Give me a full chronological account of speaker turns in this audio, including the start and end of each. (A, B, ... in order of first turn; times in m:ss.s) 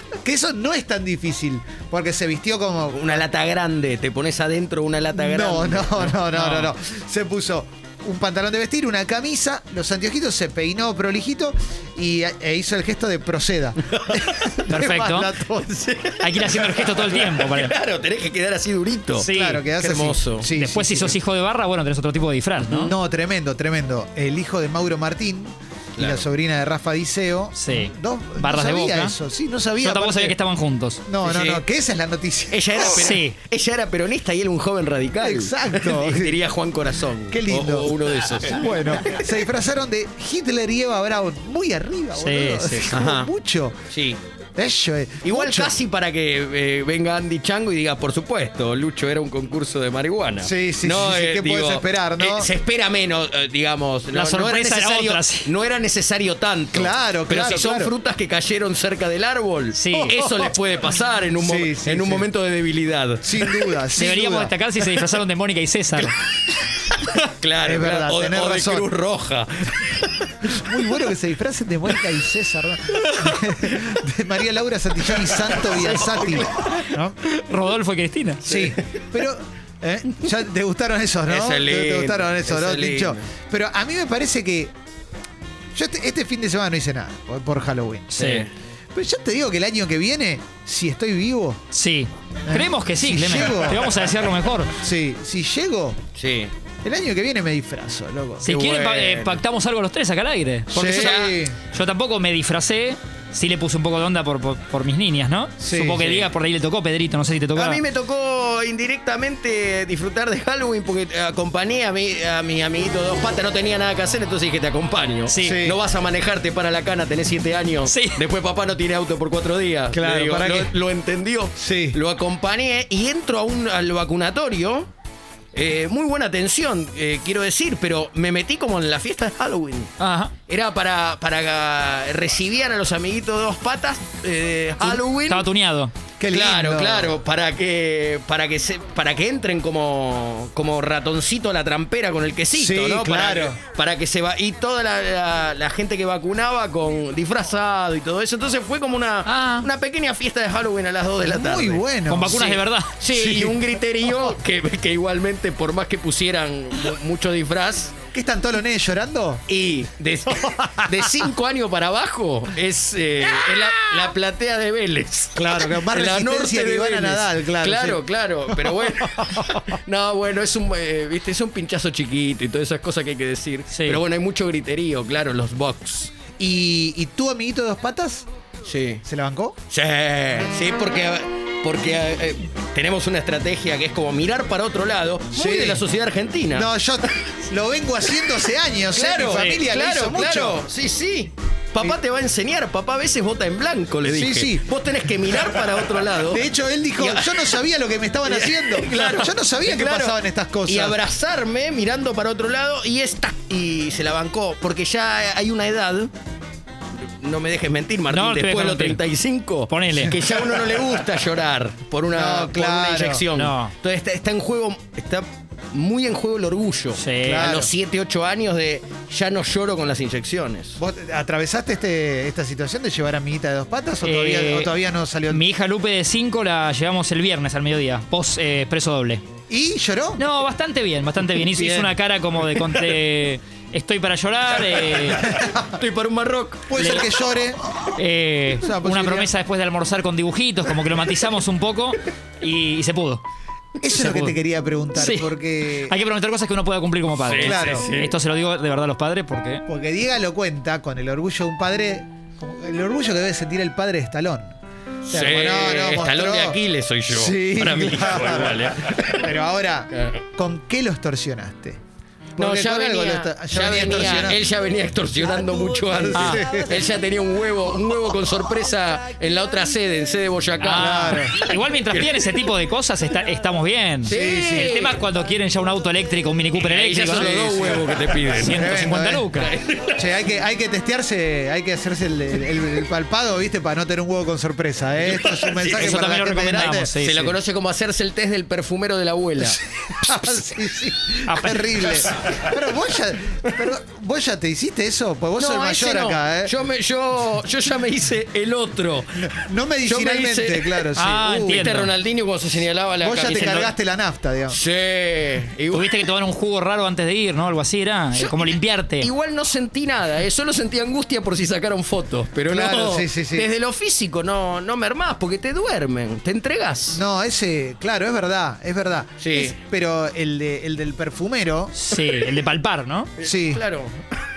0:00.2-0:03.2 A
0:02.9-0:06.2 B
0:05.1-0:15.7 A
0:06.3-0:06.7 C
0:13.9-0:14.5 B
0:14.7-0:15.3 C
0:15.6-0:20.5 B
0:16.2-0:17.7 C
0:19.2-0:19.6 C
0:19.3-0:21.2 A
0:20.5-0:22.9 C
0:22.8-0:30.4 A
0:26.0-0:26.3 B
0:27.6-0:29.1 C
0:29.8-0:31.0 C
0:31.0-0:32.9 A
0:31.2-0:31.6 B
0:32.5-0:39.3 B
0:32.9-0:33.3 C
0:35.2-0:36.4 A
0:37.3-0:43.8 A
0:42.2-0:42.9 C
0:42.9-0:43.3 B
0:43.9-0:44.2 B
0:44.6-0:45.8 A
0:45.2-1:03.7 B
0:50.4-0:52.5 A
0:54.1-0:55.5 C
0:56.7-0:57.9 A
0:59.7-1:00.2 C
0:59.9-1:00.5 A
1:01.4-1:02.2 A
1:03.2-1:04.5 A
1:03.9-1:06.1 C
1:07.4-1:10.5 B
1:07.6-1:08.8 A
1:10.5-1:17.2 A
1:15.2-1:16.7 B
1:15.7-1:16.5 C
1:17.4-1:18.4 C
1:18.4-1:24.7 A
1:18.4-1:19.0 B
1:21.3-1:23.2 B
1:25.7-1:28.2 A
1:28.1-1:28.5 C
1:28.2-1:28.5 B
1:28.9-1:31.6 A
1:31.7-1:34.7 C
1:32.4-1:34.0 A
1:34.7-1:36.0 A
1:36.2-1:36.5 B
1:36.8-1:38.6 A
1:38.4-1:47.8 C
1:38.4-1:39.4 B
1:40.7-1:41.6 A
1:40.8-1:41.4 B
1:45.6-1:46.0 A
1:46.0-1:46.3 B
1:47.5-2:04.9 B
1:55.2-1:55.6 C
1:55.4-1:55.8 A
1:57.8-1:58.2 C
1:59.9-2:00.7 A
2:01.6-2:02.0 A
2:05.5-2:09.9 B
2:10.0-2:10.3 C
2:10.5-2:15.4 B
2:14.8-2:15.9 C
2:16.2-2:17.2 A
2:16.3-2:31.8 B
2:22.5-2:23.6 A
2:29.2-2:29.7 C
2:31.2-2:32.6 A
2:32.1-2:33.0 C
2:33.0-2:37.9 B
2:33.1-2:34.3 A
2:38.1-2:39.4 A
2:39.5-2:56.1 B
2:40.3-2:41.3 A
2:43.2-2:44.1 A
2:45.4-2:49.6 A
2:53.7-2:54.0 C
2:56.4-2:58.2 A
2:58.6-2:59.0 B
2:59.0-2:59.6 A
2:59.7-3:06.7 B
3:05.3-3:05.8 A
3:06.5-3:10.6 A
3:08.9-3:16.4 B
3:09.3-3:09.6 C
3:14.1-3:14.7 A
3:16.3-3:21.0 A
3:17.0-3:17.6 B
3:18.2-3:26.1 B
3:27.2-3:40.8 B
3:28.1-3:29.0 C
3:29.7-3:30.2 C
3:32.1-3:33.2 A
3:33.3-3:33.7 C
3:37.0-3:37.5 C
3:37.2-3:37.7 A
3:40.8-3:45.4 A
3:44.0-3:44.7 C
3:45.3-3:49.2 C
3:49.5-3:50.2 A
3:50.2-3:55.2 C
3:51.4-3:52.0 A
3:52.5-3:52.9 A
3:54.6-3:55.2 B
3:55.2-3:55.7 A
3:55.7-3:56.7 B
3:56.7-3:57.6 A
3:56.8-3:57.1 C
3:57.9-4:03.2 C
3:58.6-3:59.3 A
4:03.8-4:06.0 A
4:03.9-4:04.4 C
4:05.0-4:09.6 C
4:07.2-4:08.2 B
4:07.4-4:07.9 A
4:09.7-4:14.5 A
4:15.1-4:16.6 A
4:15.1-4:19.3 B
4:17.1-4:21.8 A
4:19.9-4:20.2 B
4:22.4-4:24.4 A
4:22.4-4:32.2 B
4:25.3-4:26.7 A
4:26.1-4:26.4 C
4:30.6-4:37.7 C
4:30.7-4:31.4 A
4:34.0-4:35.0 B
4:34.1-4:34.8 A
4:36.6-4:38.6 B
4:37.2-4:37.8 A
4:38.3-4:39.5 C
4:38.5-4:39.3 A
4:39.4-4:40.1 B
4:40.0-4:46.9 A
4:45.0-4:46.0 B
4:45.6-4:47.3 C
4:47.0-4:49.6 B
4:49.4-4:56.5 A
4:51.3-4:51.8 C
4:55.4-4:59.2 B
4:59.2-5:01.7 A
4:59.8-5:03.7 B
5:01.0-5:01.9 C
5:03.0-5:04.6 A
5:03.3-5:03.7 C
5:04.5-5:06.0 B
5:05.7-5:09.1 C
5:08.1-5:17.0 B
5:12.5-5:13.5 A
5:16.9-5:21.7 A
5:19.2-5:19.6 B
5:21.7-5:23.1 C
5:23.2-5:24.0 B
5:23.2-5:23.6 A